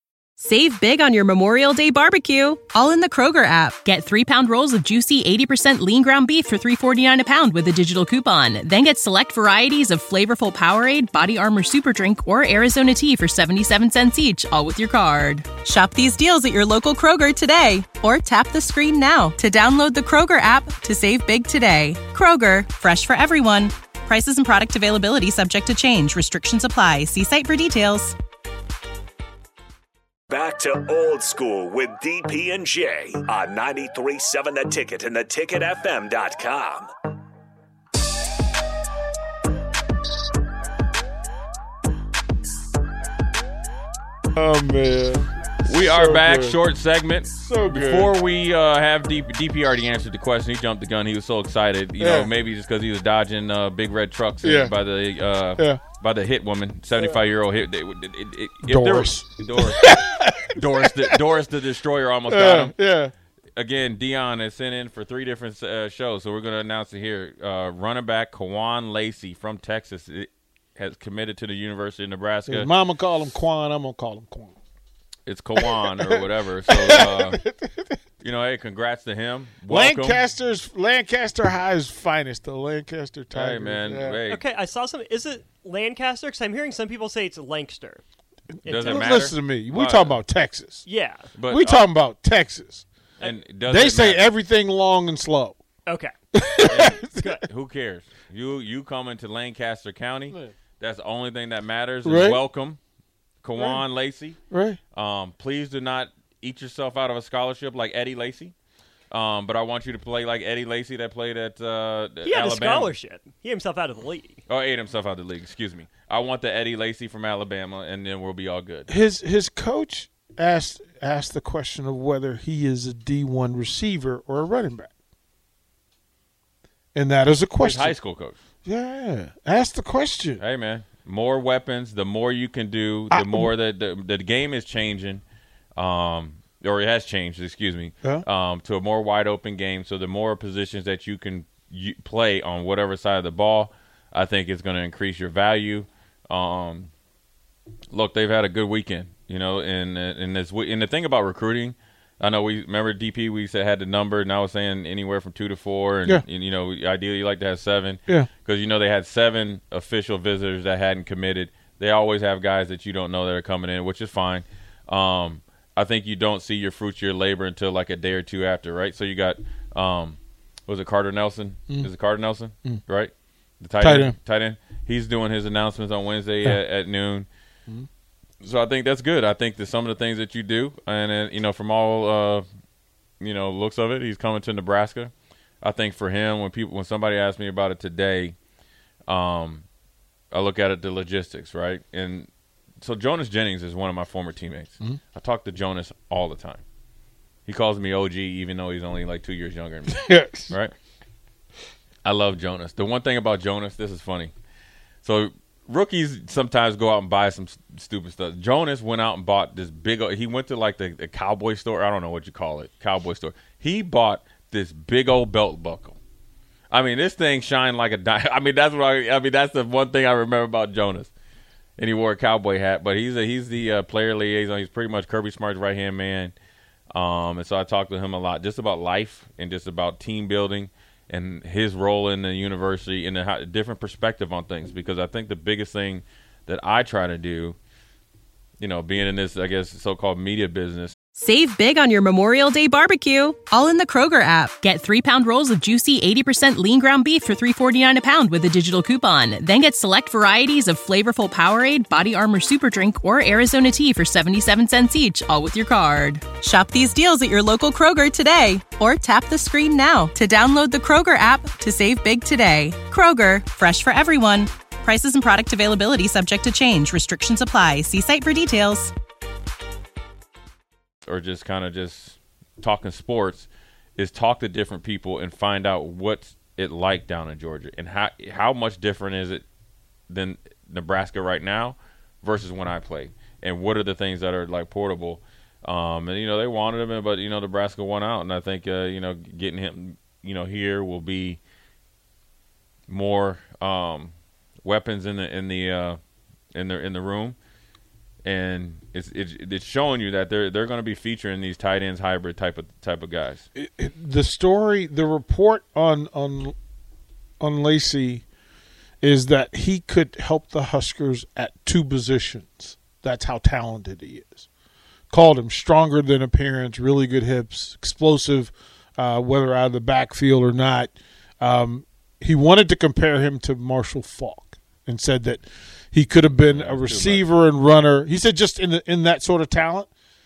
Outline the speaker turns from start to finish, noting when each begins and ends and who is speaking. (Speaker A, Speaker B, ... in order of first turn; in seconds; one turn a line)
Speaker A: 0.4-28.2
Speaker B: 30.3-36.9
Speaker C: 44.4-46.6
Speaker D: 45.6-60.0
Speaker C: 47.4-48.1
Speaker C: 52.0-52.3
Speaker C: 54.4-54.8
Speaker C: 55.6-55.8
Speaker C: 58.6-61.2
Speaker D: 60.5-62.8
Speaker C: 62.3-63.1
Speaker D: 63.6-72.7
Speaker C: 72.5-74.5
Speaker D: 75.3-77.4
Speaker C: 75.6-78.0
Speaker D: 78.2-80.2
Speaker C: 79.7-84.2
Speaker D: 83.3-84.4
Speaker E: 84.3-88.0
Speaker C: 88.6-90.9
Speaker E: 88.6-89.3
Speaker D: 88.7-90.2
Speaker E: 90.8-91.3
Speaker D: 91.4-91.9
Speaker C: 91.4-92.9
Speaker D: 93.2-94.3
Speaker C: 93.7-95.6
Speaker E: 95.9-96.2
Speaker C: 96.3-97.4
Speaker D: 96.7-102.8
Speaker E: 97.2-97.5
Speaker C: 102.0-102.4
Speaker D: 103.4-104.4
Speaker C: 104.5-104.8
Speaker D: 104.9-108.5
Speaker D: 109.1-112.9
Speaker E: 112.2-114.4
Speaker D: 114.5-118.9
Speaker C: 118.9-124.9
Speaker C: 127.0-128.0
Speaker D: 127.6-128.4
Speaker C: 128.7-130.4
Speaker D: 130.4-135.2
Speaker C: 133.1-133.5
Speaker D: 135.8-146.9
Speaker D: 147.9-177.3
Speaker C: 173.8-174.2
Speaker D: 178.4-182.4
Speaker D: 183.2-185.1
Speaker D: 185.6-188.4
Speaker D: 189.1-189.7
Speaker D: 190.3-192.3
Speaker D: 192.8-196.6
Speaker D: 197.5-200.7
Speaker C: 199.9-200.6
Speaker D: 202.1-204.3
Speaker D: 205.0-216.0
Speaker D: 216.7-221.1
Speaker D: 221.8-226.3
Speaker D: 226.9-237.6
Speaker D: 238.6-240.9
Speaker A: 241.2-268.9
Speaker D: 271.1-279.4
Speaker D: 280.1-291.4
Speaker D: 292.9-296.0
Speaker D: 296.5-297.4
Speaker D: 298.2-303.4
Speaker C: 303.6-306.6
Speaker C: 307.4-308.2
Speaker C: 309.0-314.5
Speaker C: 315.1-329.9
Speaker D: 326.4-327.2